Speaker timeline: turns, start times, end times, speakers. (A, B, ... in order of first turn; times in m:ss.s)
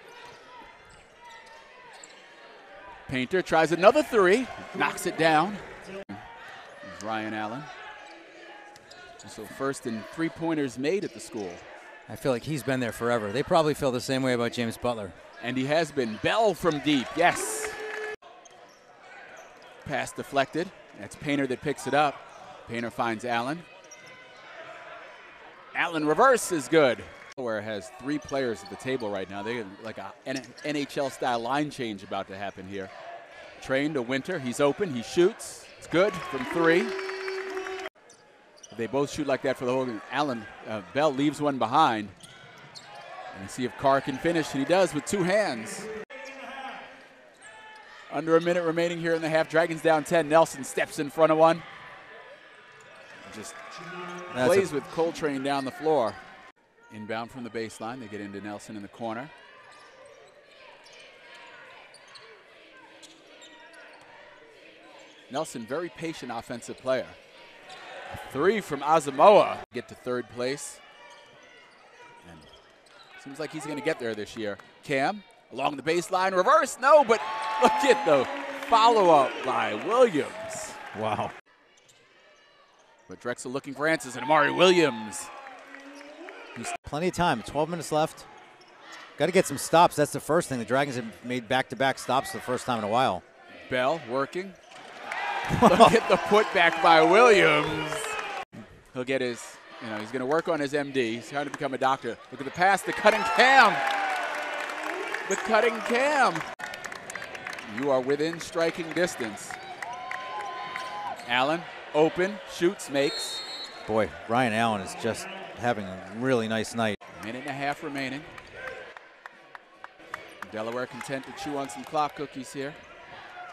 0:03.1-0:06.2 A
0:06.8-0:07.7 A
0:09.2-0:11.6 A
0:12.1-0:15.2 B
0:15.4-0:17.8 A
0:19.8-0:23.7 A
0:25.7-0:32.9 A
0:33.6-0:36.9 A
0:38.7-0:42.1 A
0:43.3-0:45.9 A
0:48.1-0:51.6 A
0:53.2-0:53.6 A
0:54.3-0:54.7 B
0:54.3-0:56.2 A
0:56.9-0:59.3 A
1:05.3-1:07.2 A
1:08.1-1:10.8 A
1:13.2-1:20.8 A
1:20.9-1:21.3 B
1:23.1-1:25.3 A
1:26.6-1:28.3 B
1:29.2-1:33.2 B
1:33.6-1:34.6 A
1:35.5-1:36.0 B
1:35.6-1:38.2 A
1:38.9-1:43.8 A
1:45.2-1:46.4 A
1:47.6-1:49.6 A
1:51.2-1:53.4 A
1:53.8-1:57.0 B
1:57.1-1:58.3 A
2:00.4-2:02.8 A